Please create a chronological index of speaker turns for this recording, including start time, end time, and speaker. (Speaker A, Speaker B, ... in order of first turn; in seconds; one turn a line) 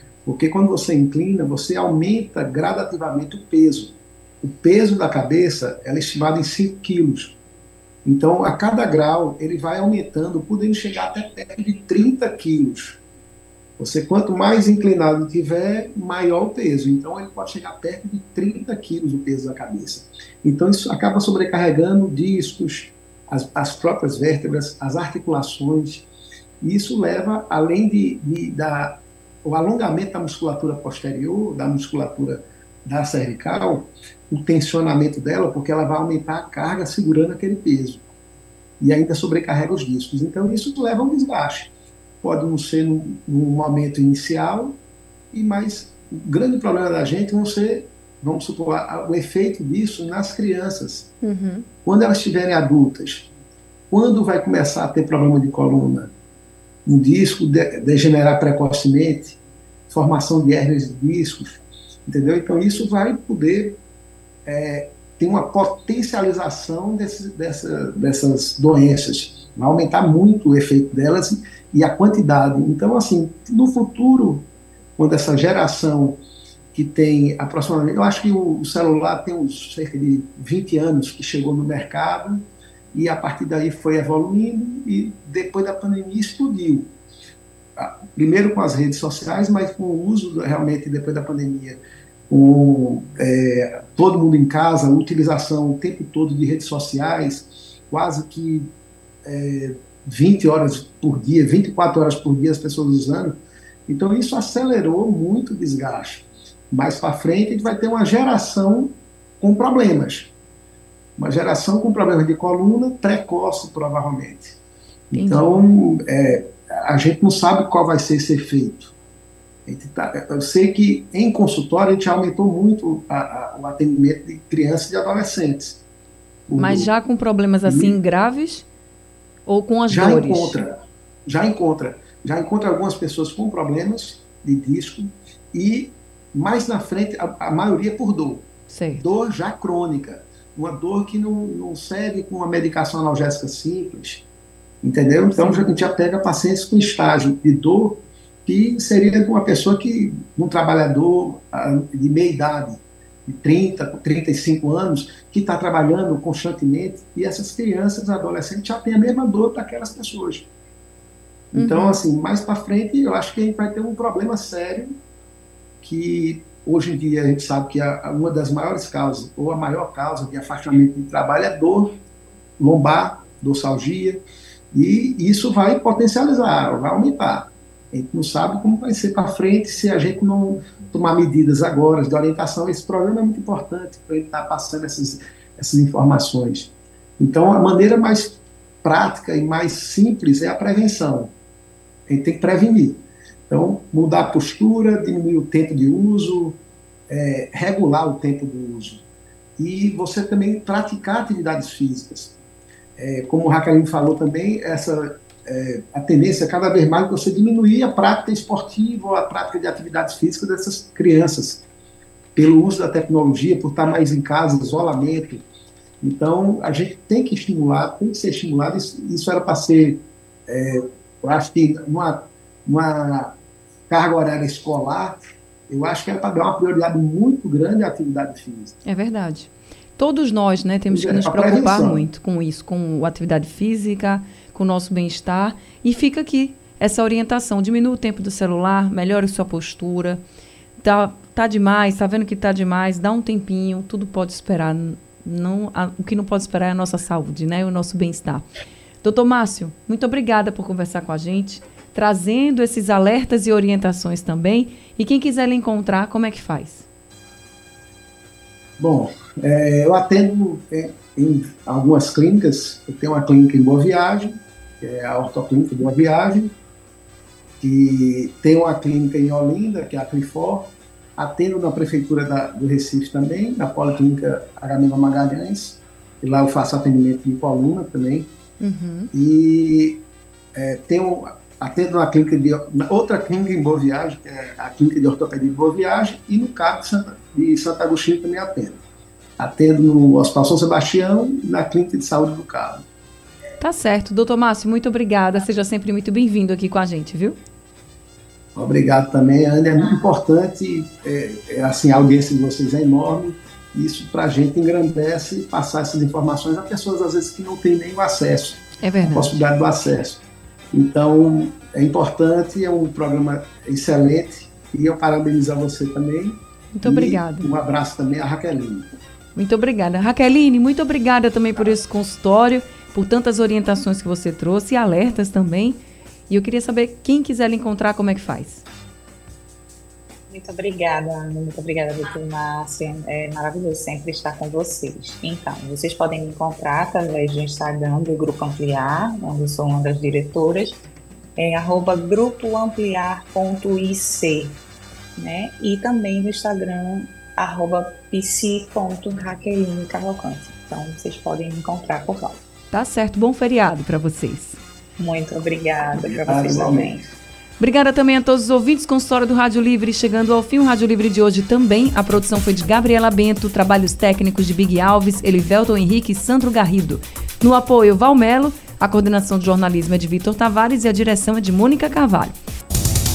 Speaker A: 0.2-7.4
Speaker A: 8.1-13.0
Speaker A: 13.8-26.1
Speaker A: 26.6-38.1
Speaker A: 38.8-44.8
Speaker A: 45.3-51.1
Speaker B: 51.2-51.7
Speaker A: 51.9-53.3
Speaker A: 53.9-56.1
Speaker A: 56.9-63.8
Speaker A: 64.5-74.5
Speaker A: 75.0-76.2
Speaker A: 76.7-86.9
Speaker A: 87.8-98.7
Speaker A: 99.2-110.3
Speaker A: 111.2-114.6
Speaker A: 115.1-118.9
Speaker B: 115.1-115.6
Speaker A: 119.7-125.8
Speaker A: 126.5-126.9
Speaker B: 126.6-128.7
Speaker A: 127.7-128.0
Speaker B: 129.4-130.6
Speaker A: 129.9-130.7
Speaker A: 131.2-144.2
Speaker B: 138.7-139.0
Speaker A: 144.8-160.5
Speaker B: 145.4-145.7
Speaker A: 161.5-164.9
Speaker B: 161.6-162.0
Speaker A: 165.8-171.9
Speaker A: 172.6-191.3
Speaker A: 192.1-199.1
Speaker A: 199.6-202.4
Speaker A: 203.0-211.6
Speaker A: 212.3-215.4
Speaker A: 216.0-223.3
Speaker A: 223.9-228.8
Speaker B: 228.8-240.2
Speaker A: 230.9-232.1
Speaker B: 240.8-248.4
Speaker B: 249.0-256.9
Speaker A: 258.8-266.6
Speaker A: 267.6-278.3
Speaker B: 278.6-279.1
Speaker A: 279.1-280.0
Speaker A: 280.6-288.8
Speaker A: 289.4-292.9
Speaker B: 293.6-297.4
Speaker A: 298.6-318.9
Speaker B: 308.8-309.4
Speaker B: 316.7-317.5
Speaker B: 319.4-328.6
Speaker C: 330.3-340.8
Speaker C: 341.4-344.6
Speaker C: 345.2-352.4
Speaker B: 352.7-354.6
Speaker C: 355.0-357.0
Speaker A: 355.9-357.0
Speaker B: 357.6-372.4